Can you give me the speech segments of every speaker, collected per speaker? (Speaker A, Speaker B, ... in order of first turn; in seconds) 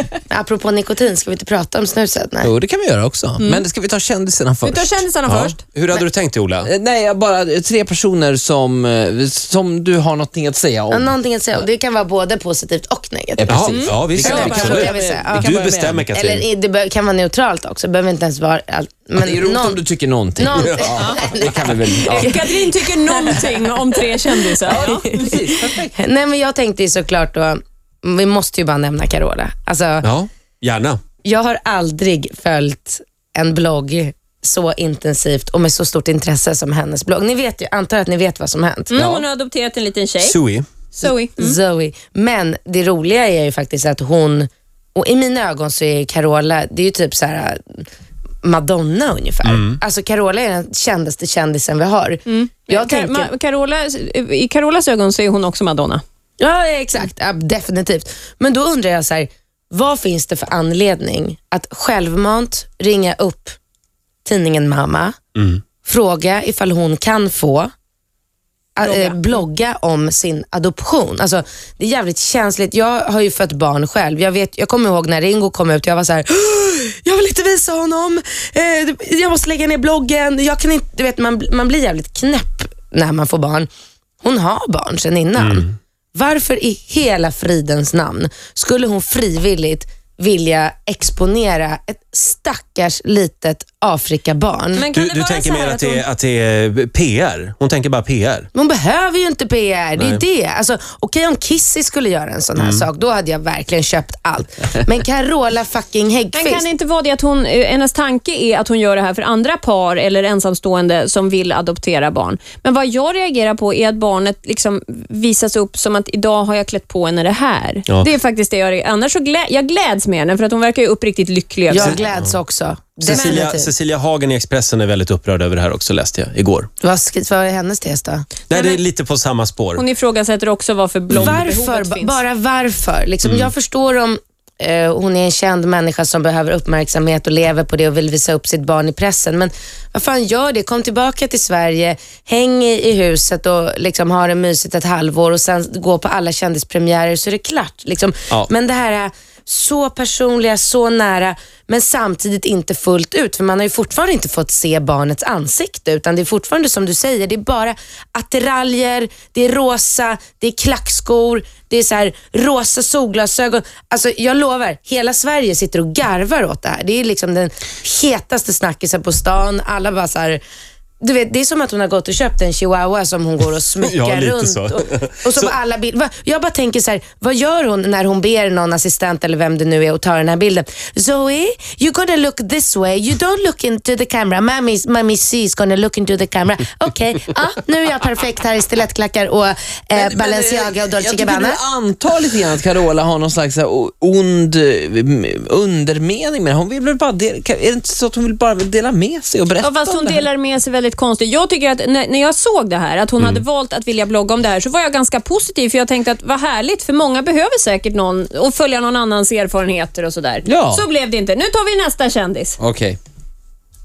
Speaker A: 0.3-2.5, 10.9-13.5, 14.3-15.5, 16.1-19.8, 20.4-30.1, 31.2-38.9, 41.0-47.9, 48.4-53.3, 56.4-63.5, 64.3-65.2, 65.8-67.7, 68.8-83.7, 84.2-94.9, 98.5-106.7, 121.7-123.7, 126.8-128.4, 131.2-170.4, 171.0-191.6
Speaker B: 2.4-5.0, 6.6-11.7, 13.4-16.1, 19.2-22.4, 24.7-25.9, 38.9-39.2, 189.9-200.3, 210.4-210.8, 212.6-213.0
Speaker C: 4.6-5.6, 13.7-14.8, 22.1-25.3, 38.9-40.4, 40.9-41.6, 52.3-56.0, 68.8-69.4, 94.7-96.0, 106.3-122.0, 128.5-128.8, 129.8-132.2, 199.6-212.6
Speaker D: 5.3-6.7, 13.5-14.8, 15.4-16.4, 20.6-20.9, 30.0-31.0, 40.2-40.6, 49.4-49.8, 65.3-65.6, 85.4-85.6, 94.9-98.5, 100.0-100.2, 102.6-102.8, 121.8-122.3, 123.0-126.7, 128.5-129.8, 131.1-131.4, 133.2-133.5, 173.8-175.5